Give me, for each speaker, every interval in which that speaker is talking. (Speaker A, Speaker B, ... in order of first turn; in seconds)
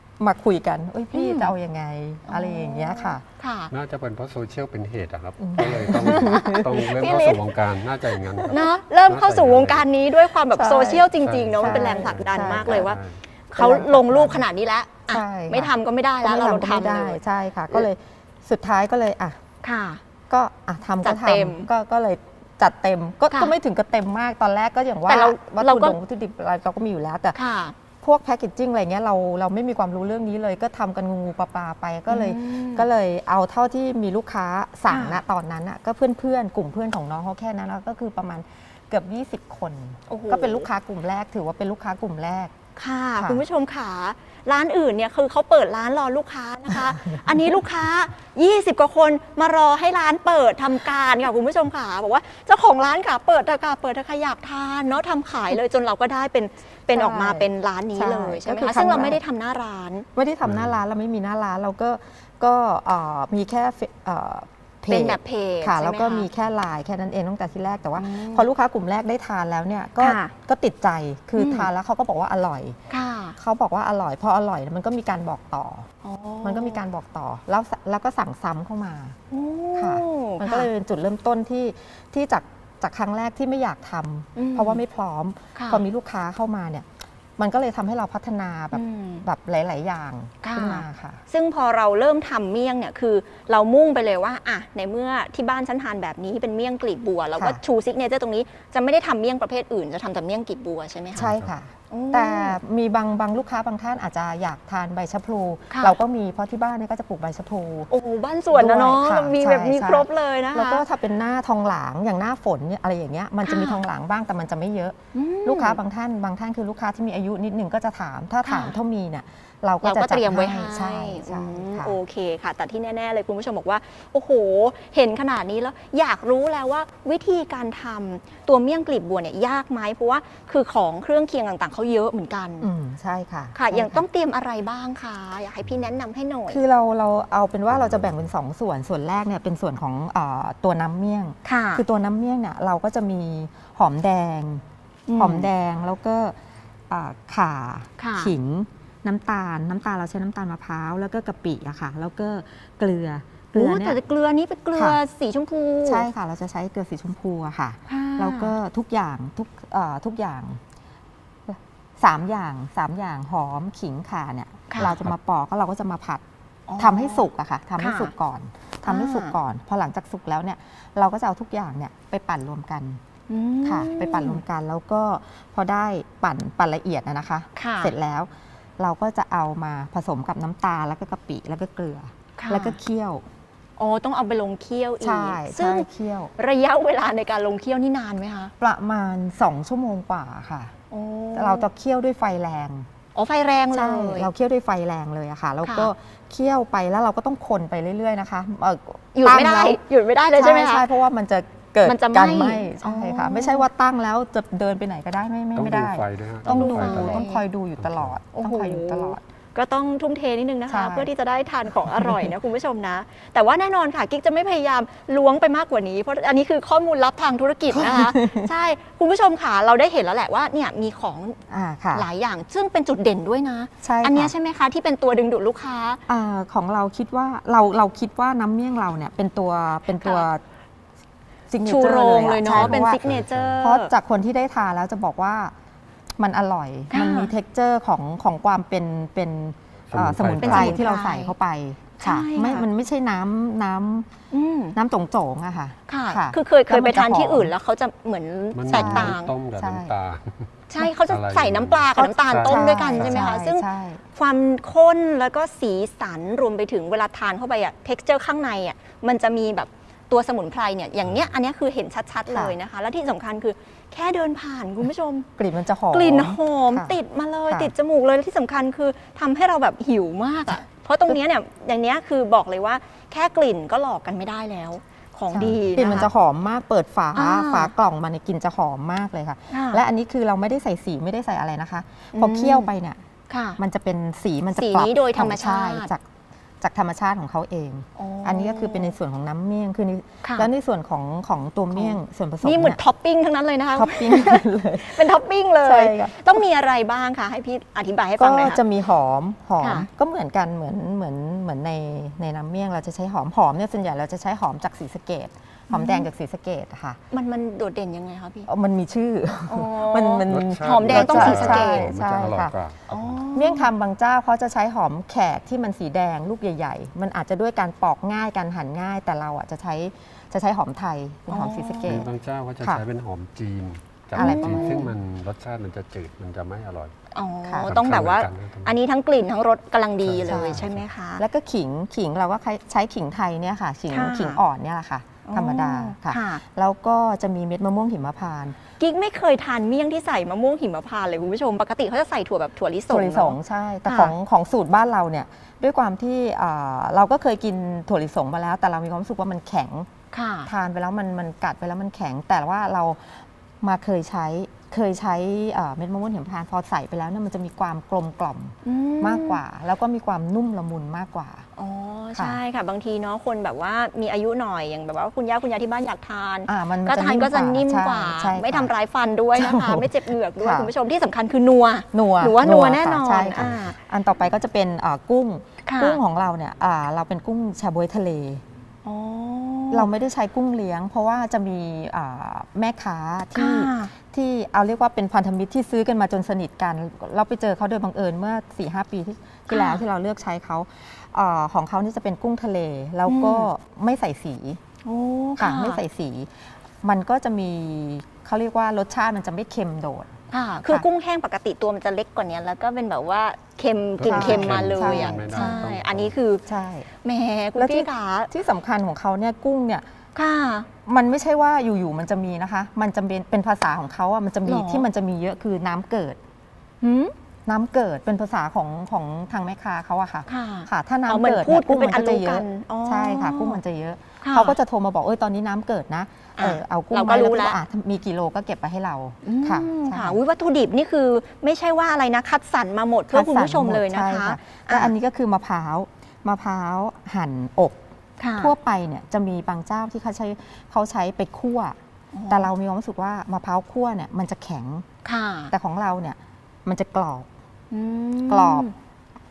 Speaker A: 0.2-3.2, 5.4-6.8, 8.2-8.6, 10.5-12.9, 13.6-14.5, 15.1-19.4, 20.3-27.4, 28.0-42.5, 43.2-43.5, 46.9-47.3, 56.9-59.2, 60.1-72.8, 73.4-75.9, 76.4-79.2, 79.8-91.2, 97.4-97.6, 101.2-107.9, 108.5-122.0, 132.6-134.0, 136.5-144.6, 145.2-146.4, 146.9-154.0, 154.7-155.0, 155.8-160.6, 161.5-166.2, 166.8-173.0, 173.7-183.2, 185.0-186.3, 188.6-190.7, 191.3-192.9, 193.7-199.8, 200.3-209.2, 210.7-211.1, 211.9-212.3, 217.7-218.5, 221.5-222.1, 223.8-224.3, 226.1-230.4, 231.5-233.0, 233.6-235.5, 236.2-244.1, 244.8-247.5, 248.7-249.9, 252.0-254.0, 262.3-262.6, 265.4-267.0, 275.3-283.0, 283.6-286.1, 286.6-292.8, 293.8-295.1, 295.6-296.4, 298.2-307.0, 308.5-312.6, 313.4-322.1, 324.1-324.9, 327.5-327.7, 330.3-330.7, 331.2-338.6, 342.9-349.9, 350.5-361.5, 366.5-368.7, 369.4-370.7, 371.9-378.4, 379.7-394.6, 395.4-400.1, 404.1-405.7, 406.5-406.9, 407.6-409.9, 410.9-416.2, 417.5-430.2, 433.1-437.8, 438.4-441.8, 442.3-444.9, 445.5-447.3, 448.3-448.7
Speaker B: 1.1-1.5, 2.3-3.7, 5.6-7.5, 8.5-17.2, 19.6-20.0, 21.0-21.7, 25.1-26.0, 27.3-27.8, 32.1-32.9, 34.9-35.2, 40.1-40.7, 42.8-60.1, 64.9-66.3, 68.0-68.5, 70.0-70.3, 71.4-71.7, 72.9-73.4, 76.0-76.8, 79.3-80.7, 84.4-84.8, 85.5-85.8, 88.7-89.2, 90.4-101.3, 101.9-102.6, 105.7-106.0, 107.9-110.8, 113.4-113.8, 115.1-115.8, 118.4-118.8, 119.8-132.7, 133.6-136.6, 141.4-141.8, 145.1-145.5, 148.0-148.3, 153.5-156.1, 157.9-158.6, 164.7-165.0, 166.7-168.1, 168.8-169.4, 173.3-174.4, 177.6-177.9, 182.4-182.8, 183.8-188.5, 190.9-191.7, 193.2-194.3, 195.6-195.9, 199.2-200.8, 201.8-203.7, 206.6-207.4, 208.3-221.4, 221.9-226.0, 230.0-230.3, 231.6-233.9, 236.9-237.3, 240.4-241.3, 242.0-242.7, 244.3-244.8, 245.9-249.3, 250.7-253.6, 254.2-265.3, 265.9-276.1, 277.1-277.7, 279.5-279.8, 282.1-282.7, 283.3-283.6, 284.6-285.9, 288.0-288.9, 290.2-290.5, 291.7-298.6, 299.6-299.9, 305.7-306.1, 307.1-308.5, 309.5-311.9, 312.9-313.7, 321.3-322.0, 324.2-324.9, 327.1-331.2, 333.9-334.4, 335.2-336.4, 338.8-344.1, 350.1-350.5, 358.6-359.4, 361.6-373.8, 375.7-376.0, 378.8-379.9, 383.4-383.9, 389.5-389.8, 393.1-393.5, 394.9-395.8, 400.3-406.4, 407.0-408.3, 410.2-410.7, 414.4-414.9, 416.8-417.1, 420.3-423.6, 424.2-424.6, 426.4-427.6, 429.2-434.9, 438.2-438.5, 442.1-442.5, 445.1-445.5, 447.7-448.8
Speaker C: 3.7-9.9, 11.2-13.2, 60.5-60.8, 101.2-101.5, 137.7-138.3, 205.6-208.2, 232.5-233.6, 239.9-240.8, 248.6-253.3, 261.0-261.3, 310.3-313.2, 321.8-326.9, 327.7-328.8, 330.0-330.9, 404.0-406.2